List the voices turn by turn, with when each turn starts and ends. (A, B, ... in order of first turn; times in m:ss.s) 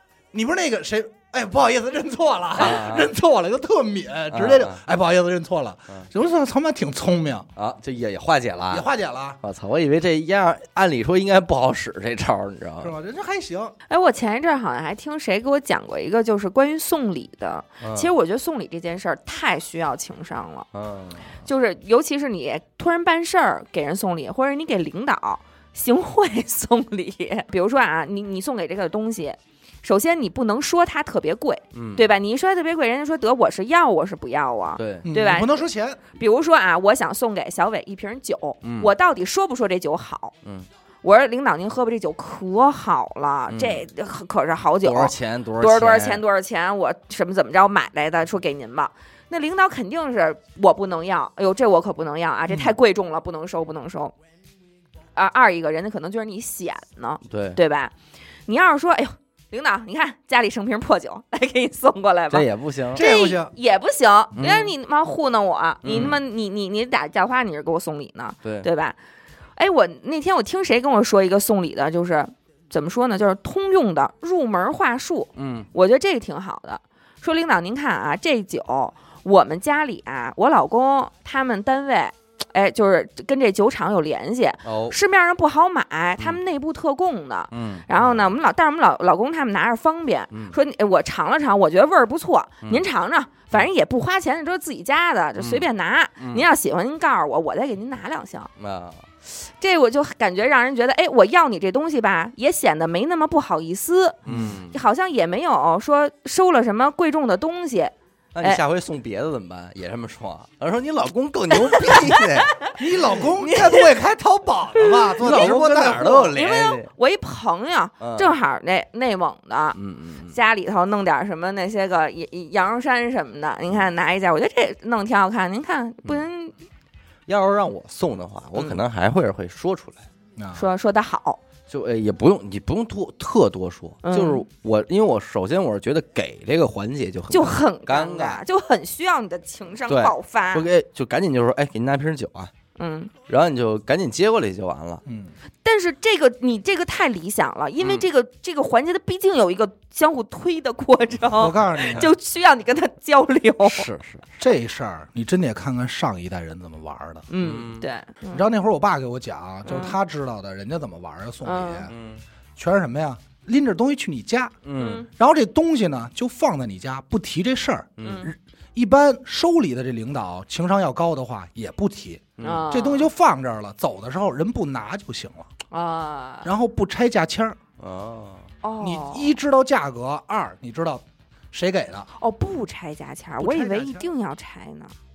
0:00.3-0:07.5 A
0:02.6-0:03.1 B
0:04.3-0:04.8 B
0:07.6-0:08.9 B
0:08.7-0:09.4 A
0:09.4-0:12.9 B
0:12.8-0:13.7 A
0:13.9-0:20.7 C
0:17.8-0:18.1 B
0:20.7-0:21.3 B
0:21.4-0:35.6 C
0:31.7-0:32.1 B
0:34.8-0:35.1 B
0:35.0-0:36.0 A
0:36.2-0:40.3 C
0:38.6-0:38.9 B
0:41.0-0:54.1 C
0:43.5-0:43.8 B
0:44.8-0:46.2 B
0:55.1-0:57.9 C
0:57.3-0:57.6 B
0:58.5-1:09.0 C
1:02.3-1:03.0 B
1:02.9-1:03.5 A
1:04.3-1:04.7 B
1:05.8-1:06.2 B
1:09.6-1:38.5 C
1:15.4-1:15.7 B
1:24.6-1:25.0 B
1:27.5-1:28.2 B
1:30.3-1:30.6 B
1:35.4-1:35.7 B
1:36.2-1:36.4 B
1:38.6-1:39.1 B
1:39.3-1:48.6 C
1:44.2-1:44.8 B
1:44.3-1:44.6 A
1:48.3-1:52.7 B
1:51.6-1:52.7 C
1:52.7-1:56.3 A
1:53.4-1:53.9 C
1:54.8-2:06.6 C
1:55.2-1:56.9 B
1:58.0-1:58.3 B
1:59.8-2:00.4 B
2:07.3-2:10.0 B
2:10.4-2:10.7 A
2:10.5-2:11.4 C
2:11.7-2:18.4 B
2:14.0-2:14.4 C
2:17.3-2:20.7 C
2:19.9-2:22.5 B
2:22.8-2:23.1 C
2:23.3-2:25.0 B
2:25.0-2:25.3 A
2:25.6-2:33.9 C
2:27.8-2:28.0 B
2:31.3-2:32.1 A
2:33.6-2:34.2 B
2:34.4-2:37.3 A
2:37.3-2:38.5 C
2:37.4-2:37.9 B
2:38.3-2:41.9 A
2:39.6-2:40.0 C
2:41.4-2:41.9 C
2:41.9-2:42.2 B
2:42.6-2:55.5 A
2:44.6-2:45.0 B
2:44.8-2:45.1 C
2:48.0-2:48.3 B
2:48.0-2:48.3 C
2:52.4-2:52.6 B
2:52.4-2:53.1 C
2:55.7-2:56.5 C
2:56.4-2:57.6 A
2:57.8-2:58.5 B
2:58.6-2:59.3 C
2:58.8-3:02.1 A
3:02.1-3:04.9 C
3:03.4-3:04.1 A